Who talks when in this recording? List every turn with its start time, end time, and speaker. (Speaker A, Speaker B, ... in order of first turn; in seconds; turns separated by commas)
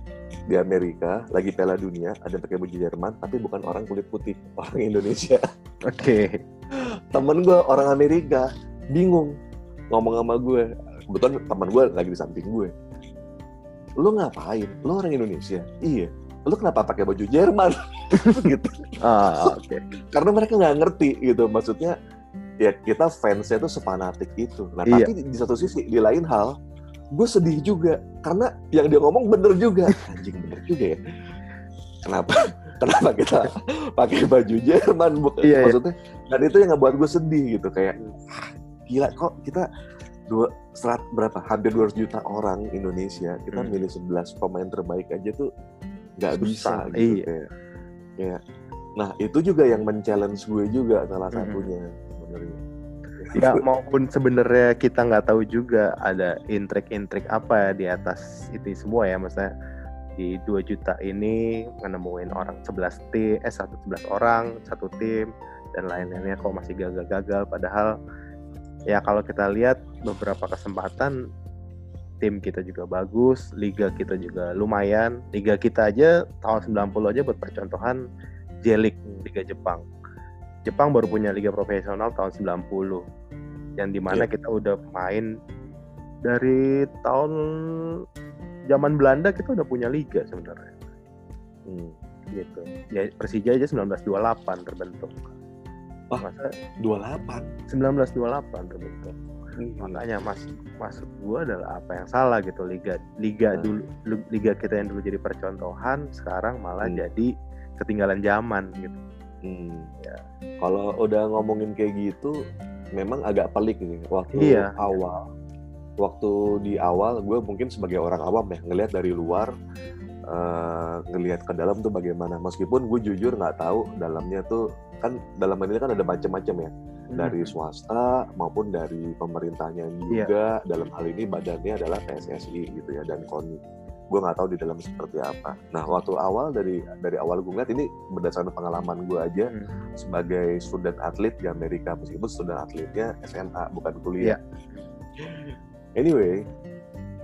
Speaker A: 0.5-5.4, Speaker B: 5.9-6.4, Speaker A: 7.1-9.3, Speaker A: 9.9-12.7, Speaker A: 14.0-18.8, Speaker B: 18.1-18.4, Speaker B: 19.0-19.8, Speaker A: 20.1-21.9, Speaker A: 22.6-26.5, Speaker A: 27.1-31.0, Speaker A: 32.0-38.0, Speaker B: 35.4-35.8, Speaker A: 38.9-39.6, Speaker A: 40.3-45.5, Speaker B: 43.5-43.8, Speaker A: 46.2-47.5, Speaker B: 46.4-47.2, Speaker A: 49.0-52.6, Speaker B: 51.3-51.7, Speaker A: 53.2-53.6, Speaker B: 53.4-59.5, Speaker B: 60.2-67.9, Speaker B: 68.9-71.1, Speaker B: 72.2-78.0, Speaker B: 78.6-79.8, Speaker B: 80.7-83.0, Speaker B: 83.8-85.2, Speaker B: 86.3-87.8, Speaker B: 88.7-90.7, Speaker A: 91.7-91.9, Speaker B: 92.3-95.3, Speaker B: 96.2-96.5, Speaker A: 96.8-97.5, Speaker B: 97.7-99.1, Speaker A: 99.6-100.0, Speaker B: 99.8-109.0, Speaker A: 109.4-109.9, Speaker A: 110.6-112.3, Speaker A: 113.0-115.2, Speaker B: 114.3-115.1, Speaker A: 116.0-119.5, Speaker A: 120.3-133.6, Speaker B: 127.1-127.5, Speaker A: 134.1-144.4, Speaker B: 144.2-144.9, Speaker A: 145.2-146.4